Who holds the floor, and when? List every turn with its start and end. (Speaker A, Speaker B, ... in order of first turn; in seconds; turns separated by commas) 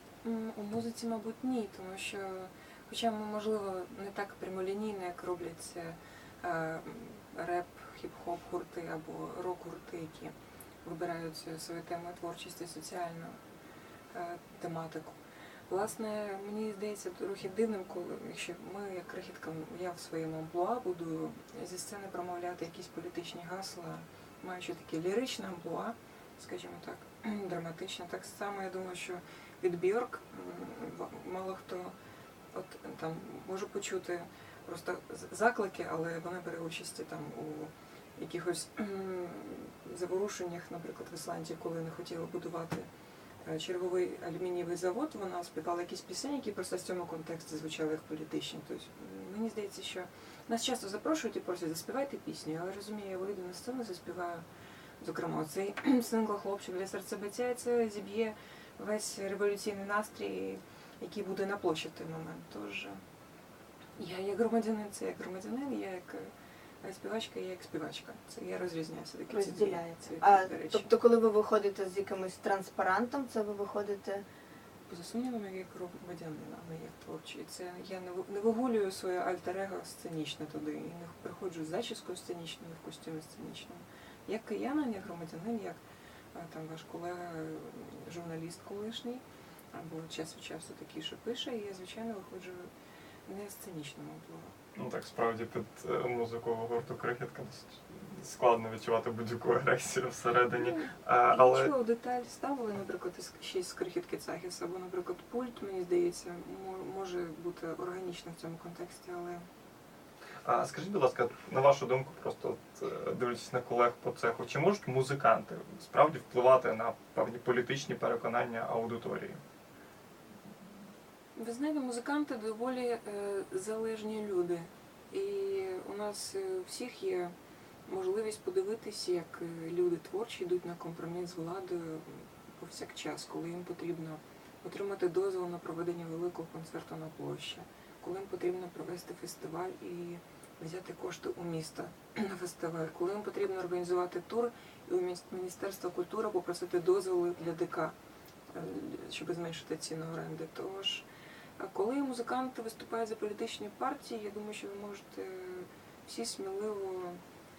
Speaker A: 0.2-13.4, Speaker A: 14.1-31.9, Speaker A: 32.5-42.9, Speaker A: 43.4-54.5, Speaker A: 55.0-63.0, Speaker A: 64.0-70.9, Speaker B: 69.3-74.2, Speaker A: 74.9-85.8, Speaker A: 86.3-92.7, Speaker A: 93.3-94.5, Speaker C: 94.8-101.7, Speaker A: 100.5-109.5, Speaker C: 110.5-119.4, Speaker A: 121.4-127.3, Speaker A: 127.9-148.0, Speaker A: 148.5-151.1, Speaker A: 151.6-157.2